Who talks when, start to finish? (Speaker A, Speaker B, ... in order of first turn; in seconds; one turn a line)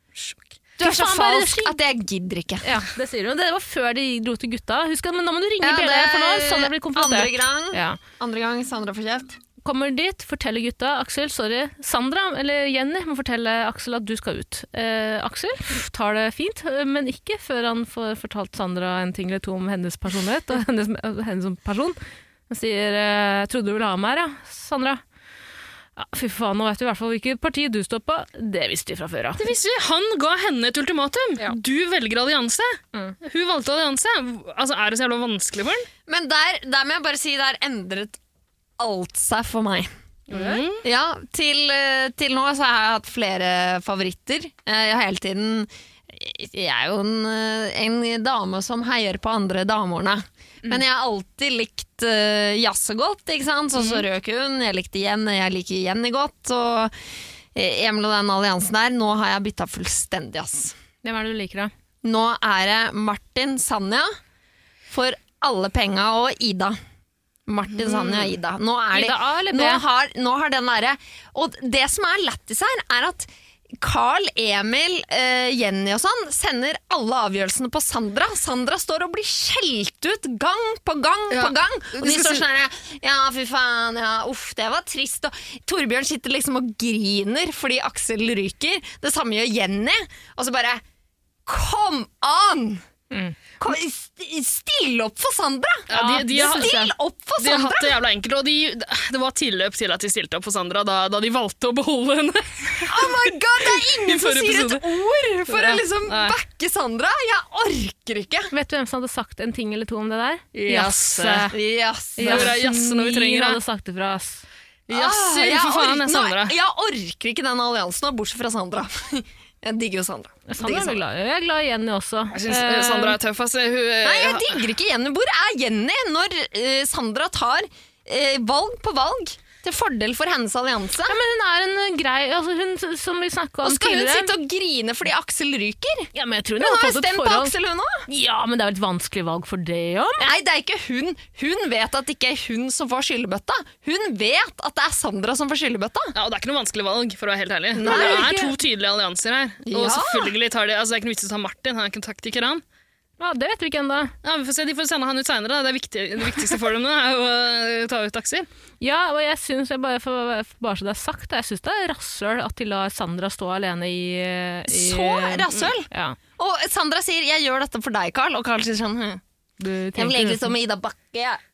Speaker A: 0.1-0.4
Speaker B: 0.8-1.8
Speaker C: 0.8-2.7
Speaker B: 2.6-8.0
Speaker C: 5.6-9.4
Speaker B: 9.6-22.0
Speaker B: 22.5-25.0
Speaker B: 26.0-29.4
Speaker A: 29.4-35.9
Speaker C: 36.1-38.2
Speaker C: 38.8-39.9
Speaker A: 40.3-40.8
Speaker B: 40.3-40.6
Speaker C: 40.8-56.9
Speaker A: 53.8-54.0
Speaker C: 57.5-60.8
Speaker B: 61.0-61.7
Speaker C: 62.0-64.1
Speaker C: 64.9-66.8
Speaker C: 67.5-90.8
Speaker A: 67.8-68.3
Speaker B: 68.9-69.8
Speaker A: 81.3-82.4
Speaker C: 91.5-92.8
Speaker B: 93.1-93.4
Speaker C: 93.6-98.0
Speaker A: 95.9-96.7
Speaker B: 95.9-96.9
Speaker A: 97.4-104.9
Speaker C: 102.9-108.5
Speaker A: 105.5-106.3
Speaker B: 108.5-111.5
Speaker A: 110.5-111.5
Speaker C: 111.5-112.5
Speaker B: 112.2-114.4
Speaker A: 112.2-113.6
Speaker A: 114.9-116.5
Speaker C: 114.9-121.0
Speaker B: 120.5-123.2
Speaker A: 122.3-124.7
Speaker C: 124.0-131.2
Speaker B: 131.1-134.3
Speaker C: 133.6-138.0
Speaker B: 136.1-137.5
Speaker B: 138.1-140.3
Speaker C: 140.2-146.1
Speaker A: 146.1-152.6
Speaker C: 147.8-148.3
Speaker B: 147.8-148.5
Speaker C: 149.6-150.3
Speaker B: 153.2-154.1
Speaker A: 154.2-158.5
Speaker B: 158.8-166.2
Speaker C: 164.7-169.2
Speaker B: 169.6-170.5
Speaker C: 169.9-171.4